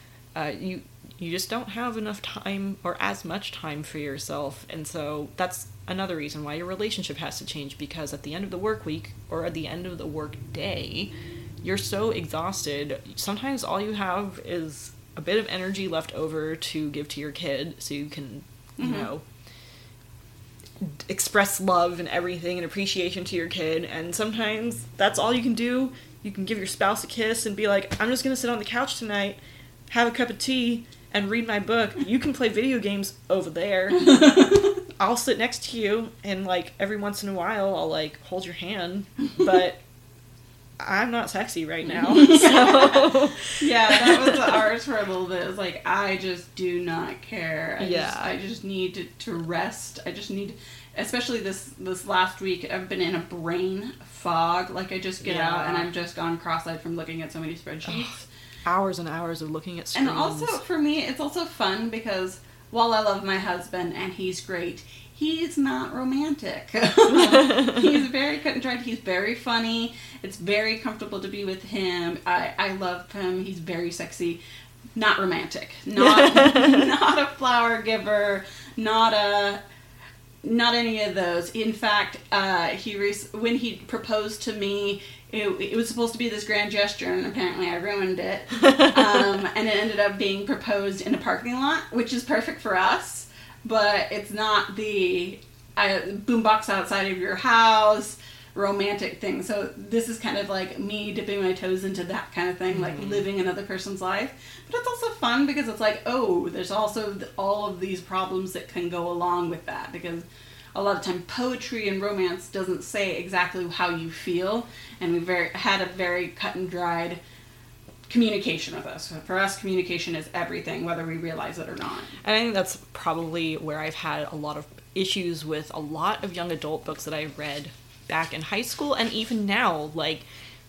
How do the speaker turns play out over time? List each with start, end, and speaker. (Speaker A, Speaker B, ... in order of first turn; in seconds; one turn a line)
Speaker A: 0.3-19.2
Speaker B: 18.8-19.1
Speaker A: 20.8-29.4
Speaker A: 29.9-39.8
Speaker B: 34.1-34.7
Speaker A: 40.8-44.5
Speaker B: 41.8-58.2
Speaker A: 47.8-48.3
Speaker A: 55.2-55.9
Speaker A: 57.9-58.1
Speaker A: 58.6-60.6
Speaker B: 59.9-74.4
Speaker A: 67.1-67.9
Speaker B: 74.9-79.6
Speaker A: 76.0-76.9
Speaker B: 80.4-117.2
Speaker A: 102.7-103.2
Speaker B: 118.1-122.2
Speaker A: 122.2-130.2